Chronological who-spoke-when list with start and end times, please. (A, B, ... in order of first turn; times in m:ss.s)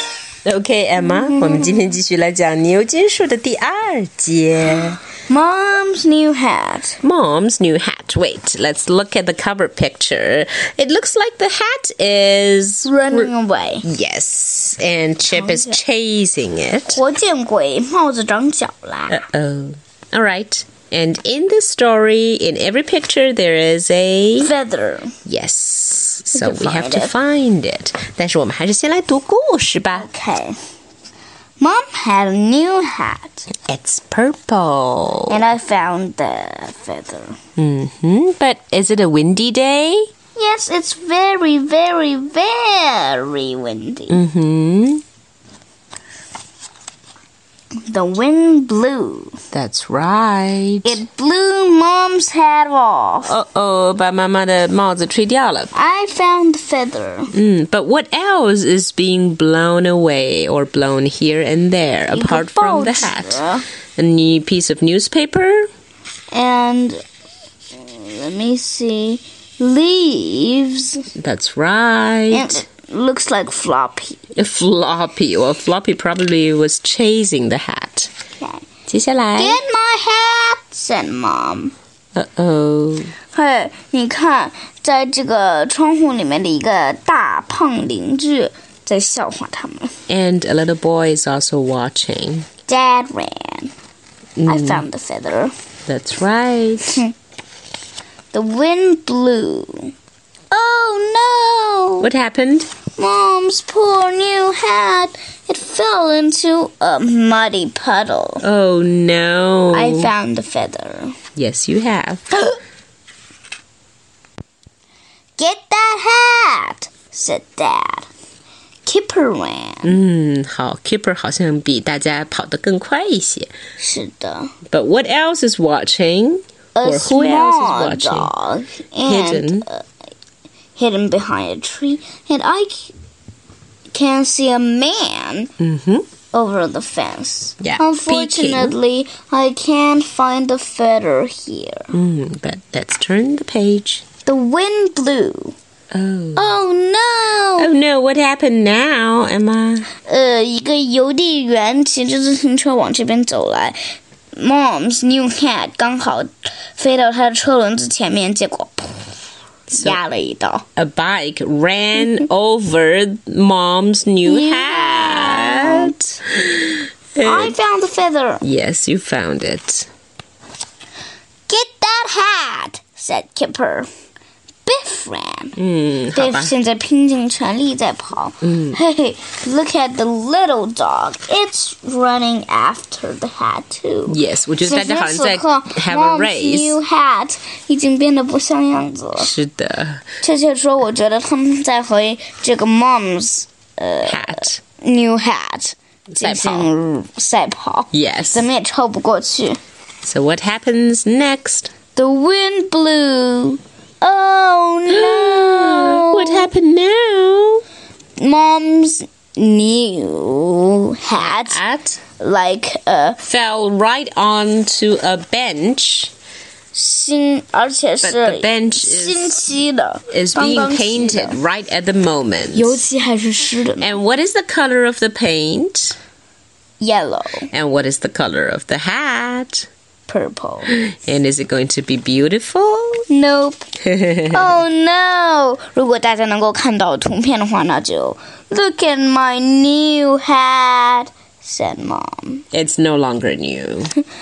0:00.4-0:05.0 A
0:01.3-0:01.7 B
0:05.3-0:07.0 B
0:07.0-0:13.3 A
0:12.8-0:13.8 B
0:13.8-0:17.0 A
0:15.3-0:15.8 B
0:16.9-0:19.2 B
0:19.1-0:24.5 A
0:24.4-0:25.2 B
0:25.2-0:30.1 A
0:26.4-0:27.1 B
0:29.9-0:30.6 B
0:31.6-0:33.5 B
0:33.7-0:35.4 A
0:35.3-0:37.4 B
0:37.6-0:40.1 A
0:40.4-0:44.2 B
0:44.1-0:45.0 A
0:47.8-0:49.4 B
0:49.5-0:51.0 A
0:50.8-0:53.4 B
0:53.3-0:55.7 A
0:55.7-0:57.3 B
0:57.3-1:03.4 A
1:02.1-1:03.6 B
1:04.0-1:05.7 A
1:06.3-1:07.0 B
1:07.7-1:11.1 B
1:11.2-1:12.6 A
1:12.3-1:14.2 B
1:14.4-1:18.1 A
1:18.4-1:18.7 B
1:18.9-1:19.6 A
1:19.4-1:21.7 B
1:22.2-1:23.1 A
1:23.3-1:30.0 B
1:30.1-1:32.5 A
1:32.7-1:33.7 B
1:34.4-1:34.8 A
1:34.5-1:35.5 B
1:35.9-1:37.0 A
1:38.3-1:39.9 B
1:40.5-1:42.1 B
1:42.0-1:42.7 A
1:43.0-1:48.4 B
1:48.4-1:50.1 A
1:49.7-1:51.2 B
1:51.4-1:52.2 A
1:55.4-1:58.1 B
1:58.9-2:00.0 B
1:59.8-2:03.5 A
2:03.8-2:04.5 B
2:04.7-2:08.3 A
2:06.8-2:09.8 B
2:09.0-2:09.7 A
2:10.8-2:12.9 B
2:13.9-2:15.5 B
2:15.6-2:16.1 A
2:16.3-2:21.9 B
2:17.6-2:18.7 A
2:21.9-2:24.0 A
2:24.3-2:25.6 B
2:25.9-2:26.5 A
2:26.4-2:27.7 B
2:27.6-2:29.9 A
2:30.1-2:33.8 B
2:34.4-2:39.1 B
2:39.7-2:40.0 A
2:39.7-2:40.6 B
2:40.8-2:47.6 A
2:44.2-2:45.9 B
2:47.2-2:48.4 B
2:48.4-2:49.9 A
2:51.5-2:53.9 B
2:54.7-2:55.6 B
2:55.6-2:56.5 A
2:56.1-3:09.3 B
2:58.4-2:58.8 A
3:04.1-3:06.8 A
3:09.2-3:10.0 A
3:10.2-3:19.6 B
3:14.0-3:14.6 A
3:16.1-3:16.7 A
3:17.9-3:18.5 A
3:20.0-3:21.7 A
3:22.0-3:26.5 B
3:24.9-3:27.6 A
3:28.2-3:31.6 B
3:31.5-3:32.0 A
3:32.2-3:33.2 B
3:33.2-3:36.1 A
3:36.7-3:41.4 B
3:38.0-3:39.4 A
3:40.1-3:42.8 A
3:42.5-3:44.0 B
3:43.8-3:46.0 A
3:46.8-3:47.5 B
3:47.5-3:49.7 A
3:50.1-3:50.8 B
3:50.7-3:53.0 A
3:53.1-3:53.7 B
3:53.8-3:54.6 A
3:54.3-4:02.4 B
4:02.5-4:03.9 A